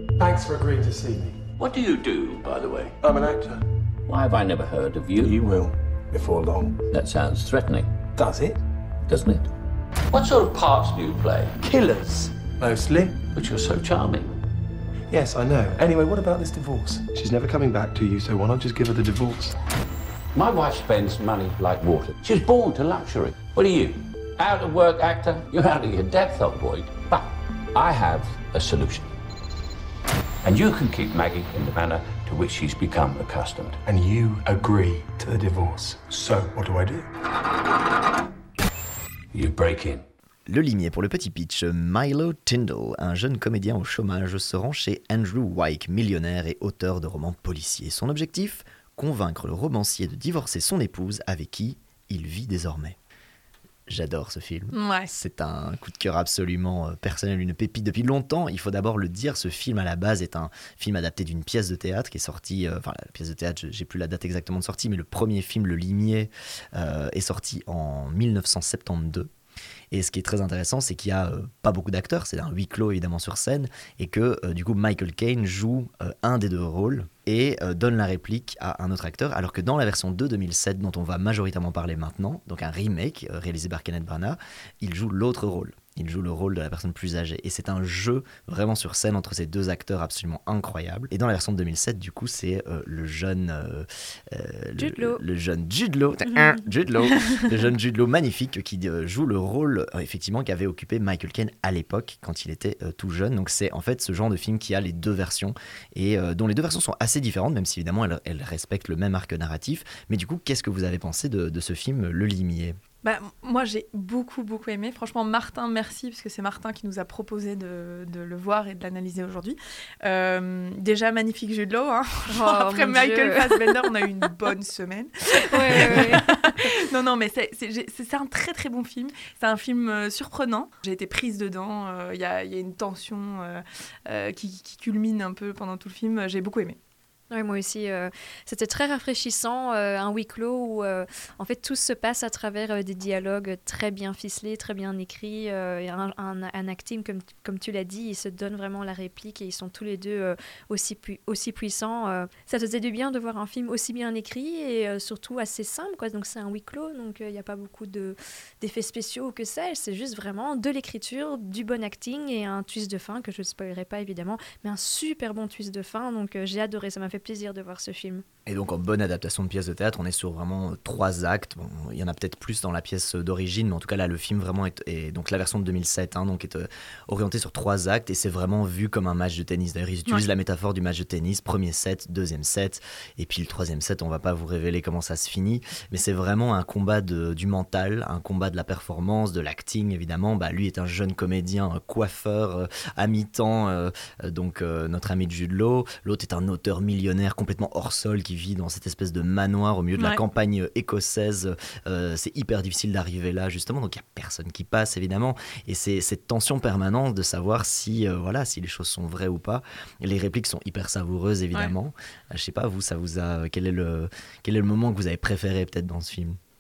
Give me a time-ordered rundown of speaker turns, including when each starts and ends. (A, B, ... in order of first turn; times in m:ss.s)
0:00.2-0:01.4 A
0:01.6-0:03.0 B
0:03.0-0:03.6 A
0:04.1-0:05.4 B
0:05.2-0:06.8 A
0:06.9-0:07.9 B
0:08.2-0:08.6 A
0:09.0-0:09.5 B
0:10.1-0:11.6 B
0:11.6-0:13.2 A
0:13.3-0:14.4 B
0:15.1-0:19.6 A
0:20.3-0:29.1 B
0:30.4-0:33.8 B
0:33.8-0:37.1 A
0:39.3-0:40.0 B
0:40.5-0:53.0 C
0:53.9-1:09.3 C
0:54.7-0:55.1 D
1:09.9-1:52.8 C
1:34.8-1:35.2 E
1:36.3-1:36.6 E
1:53.0-2:16.8 D
2:02.3-2:03.8 E
2:05.5-2:06.7 E
2:17.3-2:48.2 E
2:48.5-3:36.4 C